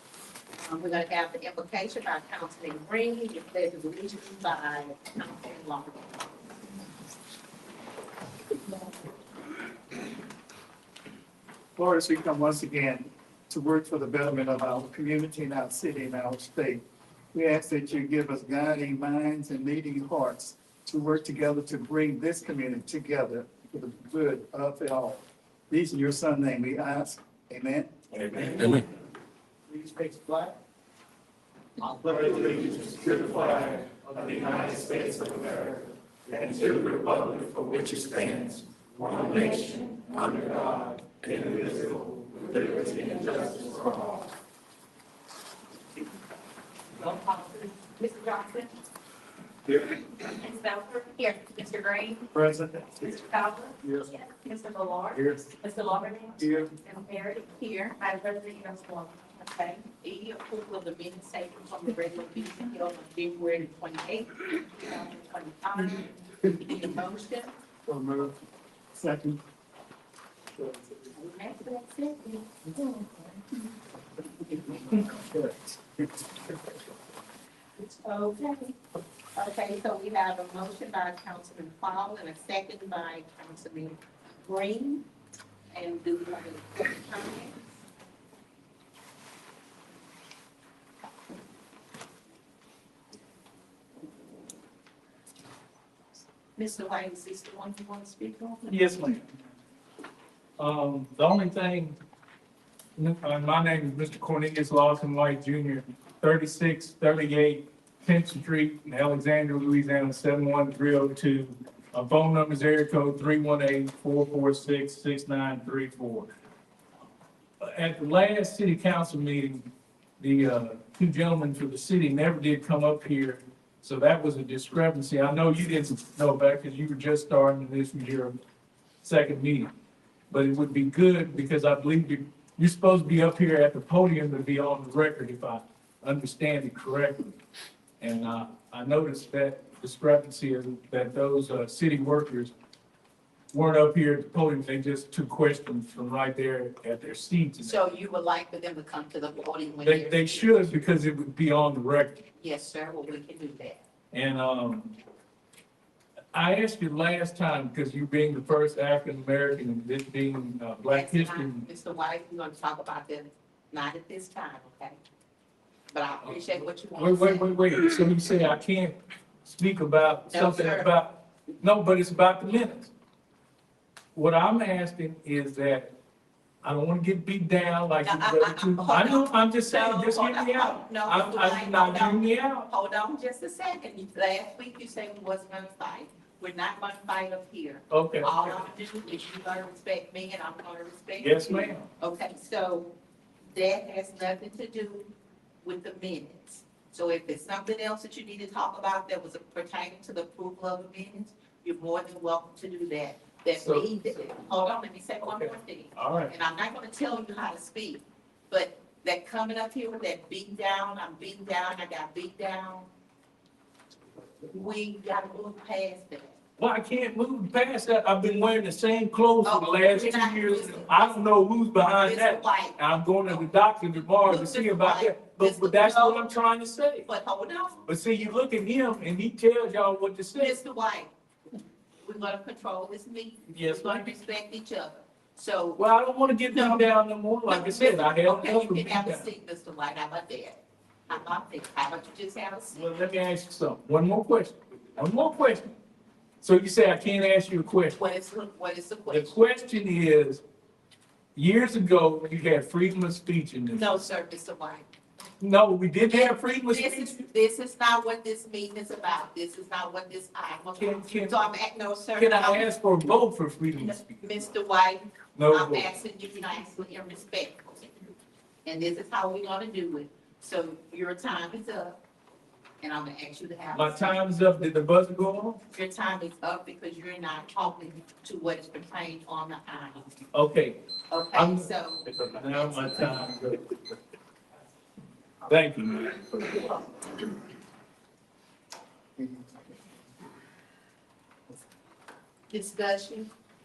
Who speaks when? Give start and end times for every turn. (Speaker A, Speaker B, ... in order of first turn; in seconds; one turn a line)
Speaker A: 0.6-6.3
Speaker B: 11.8-28.8
Speaker B: 29.7-30.6
Speaker B: 31.8-39.6
Speaker B: 40.2-42.0
Speaker B: 42.5-44.0
Speaker C: 43.0-43.8
Speaker C: 47.0-48.5
Speaker A: 47.1-48.7
Speaker C: 50.2-52.2
Speaker A: 50.8-52.0
Speaker B: 52.3-53.1
Speaker C: 53.1-56.7
Speaker B: 53.8-54.1
Speaker A: 56.4-67.5
Speaker C: 58.1-59.0
Speaker B: 67.9-68.3
Speaker B: 68.9-69.4
Speaker B: 70.6-71.1
Speaker A: 71.1-72.5
Speaker B: 75.1-75.5
Speaker A: 77.8-78.8
Speaker A: 79.3-85.1
Speaker A: 85.7-87.6
Speaker A: 96.6-98.9
Speaker D: 98.7-99.2
Speaker D: 100.6-102.0
Speaker D: 103.0-116.3
Speaker D: 117.6-119.7
Speaker D: 120.2-128.3
Speaker D: 129.0-129.7
Speaker D: 130.3-137.3
Speaker D: 138.0-142.5
Speaker D: 143.5-147.8
Speaker A: 147.6-150.6
Speaker D: 149.8-152.2
Speaker A: 152.4-153.8
Speaker D: 154.1-154.9
Speaker D: 156.3-161.7
Speaker A: 160.9-165.0
Speaker A: 165.9-167.8
Speaker D: 166.3-172.9
Speaker A: 170.3-170.9
Speaker D: 174.1-175.9
Speaker D: 176.6-182.7
Speaker A: 178.0-192.9
Speaker D: 187.9-188.5
Speaker D: 191.2-191.8
Speaker A: 193.5-195.1
Speaker A: 195.6-212.9
Speaker D: 203.6-204.1
Speaker D: 205.2-206.3
Speaker A: 214.5-216.3
Speaker D: 216.6-227.1
Speaker A: 219.4-221.2
Speaker A: 222.0-223.5
Speaker A: 224.2-226.3
Speaker A: 227.0-227.8
Speaker D: 227.9-230.6
Speaker A: 230.3-231.1
Speaker A: 232.0-235.8
Speaker D: 233.5-234.1
Speaker D: 235.8-239.3
Speaker A: 236.5-236.9
Speaker A: 237.5-242.9
Speaker D: 242.7-245.8
Speaker D: 246.4-248.0
Speaker A: 247.9-249.3
Speaker D: 249.1-250.4
Speaker D: 251.4-253.9
Speaker A: 253.7-254.9
Speaker D: 255.4-257.2
Speaker A: 256.1-262.7
Speaker D: 260.8-261.5
Speaker D: 262.2-264.2
Speaker A: 263.8-267.9
Speaker D: 265.3-265.9
Speaker A: 268.6-272.0
Speaker A: 272.8-274.2
Speaker D: 273.7-275.6
Speaker A: 275.7-280.1
Speaker D: 280.3-280.8
Speaker A: 281.1-283.3
Speaker D: 281.3-283.8
Speaker D: 285.5-286.6
Speaker B: 289.2-289.5
Speaker A: 292.5-293.3